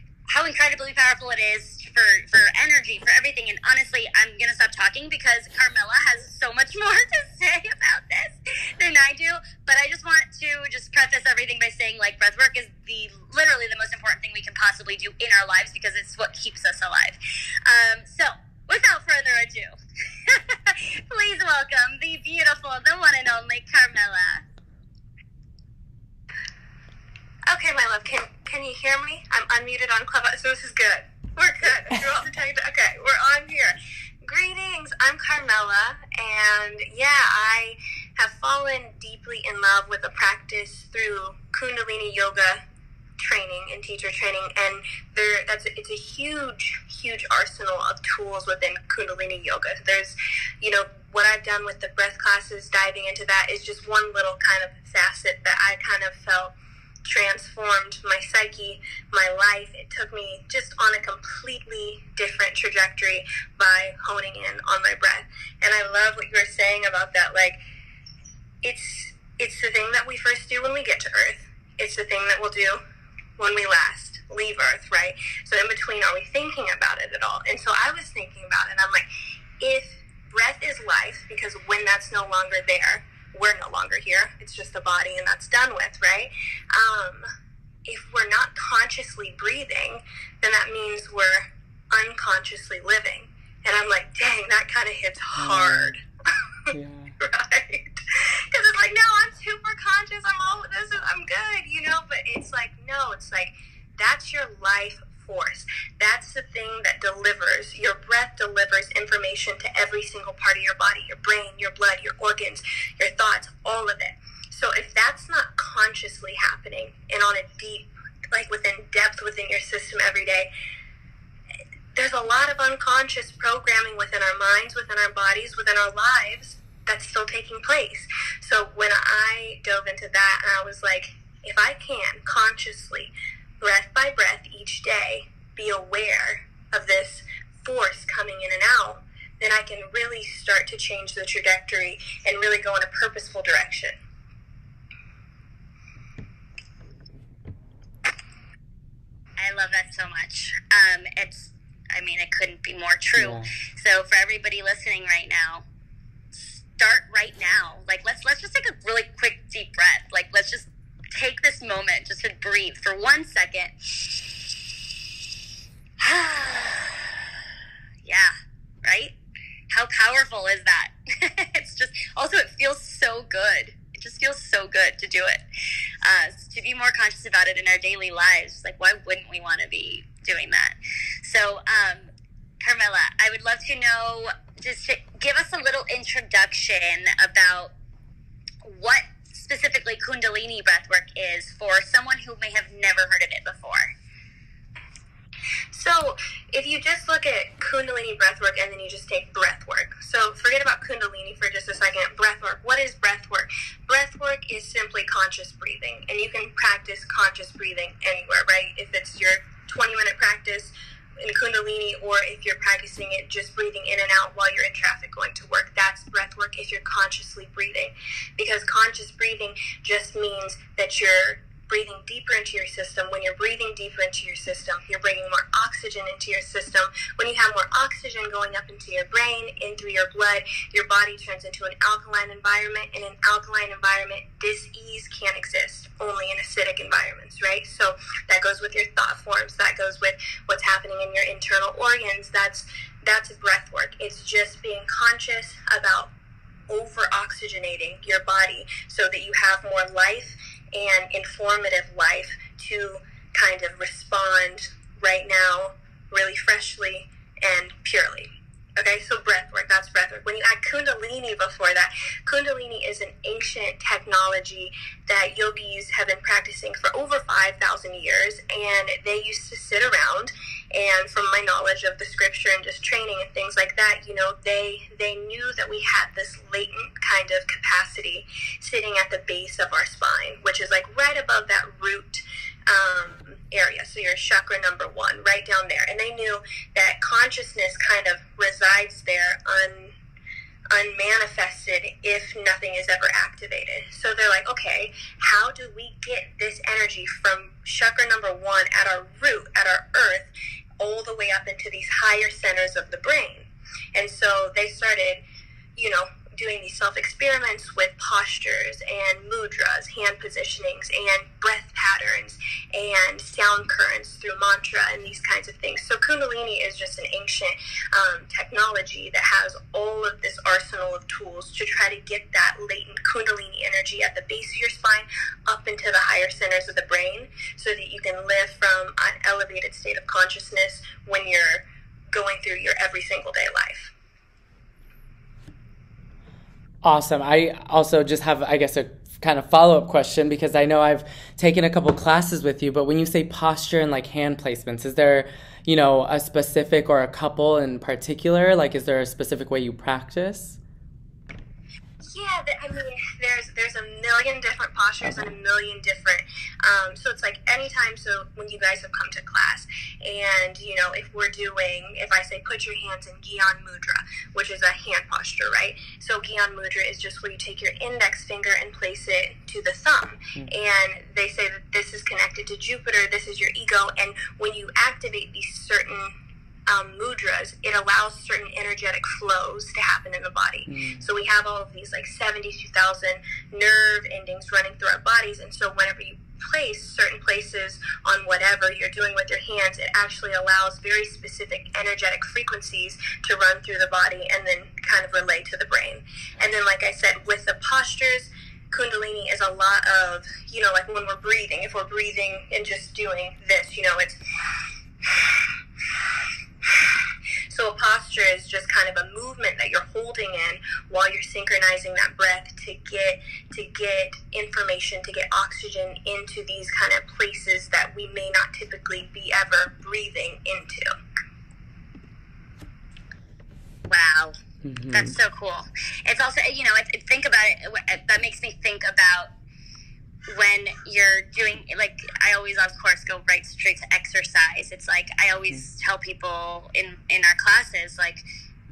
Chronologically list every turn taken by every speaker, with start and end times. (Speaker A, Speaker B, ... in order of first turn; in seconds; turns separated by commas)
Speaker A: 0.3-19.7, Speaker A: 20.3-24.4, Speaker B: 27.5-42.6, Speaker B: 43.2-56.5, Speaker B: 57.0-67.6, Speaker B: 68.6-72.8, Speaker B: 73.4-79.1, Speaker B: 79.6-87.3, Speaker B: 87.9-96.0, Speaker C: 95.4-96.0, Speaker B: 96.7-120.5, Speaker C: 96.7-97.2, Speaker B: 122.0-144.0, Speaker A: 149.4-155.6, Speaker C: 153.2-153.5, Speaker A: 156.3-164.2, Speaker A: 166.0-167.0, Speaker A: 168.1-169.1, Speaker A: 169.7-175.4, Speaker A: 176.0-182.1, Speaker A: 182.6-187.7, Speaker A: 188.6-193.9, Speaker B: 195.7-246.1, Speaker B: 246.7-289.9, Speaker B: 290.7-305.2, Speaker B: 305.8-333.9, Speaker C: 336.8-350.6, Speaker B: 352.0-376.1, Speaker B: 376.7-404.2, Speaker C: 380.7-381.1, Speaker B: 407.5-420.9, Speaker A: 423.9-424.4, Speaker C: 424.6-425.2, Speaker A: 424.9-429.3, Speaker A: 430.3-438.2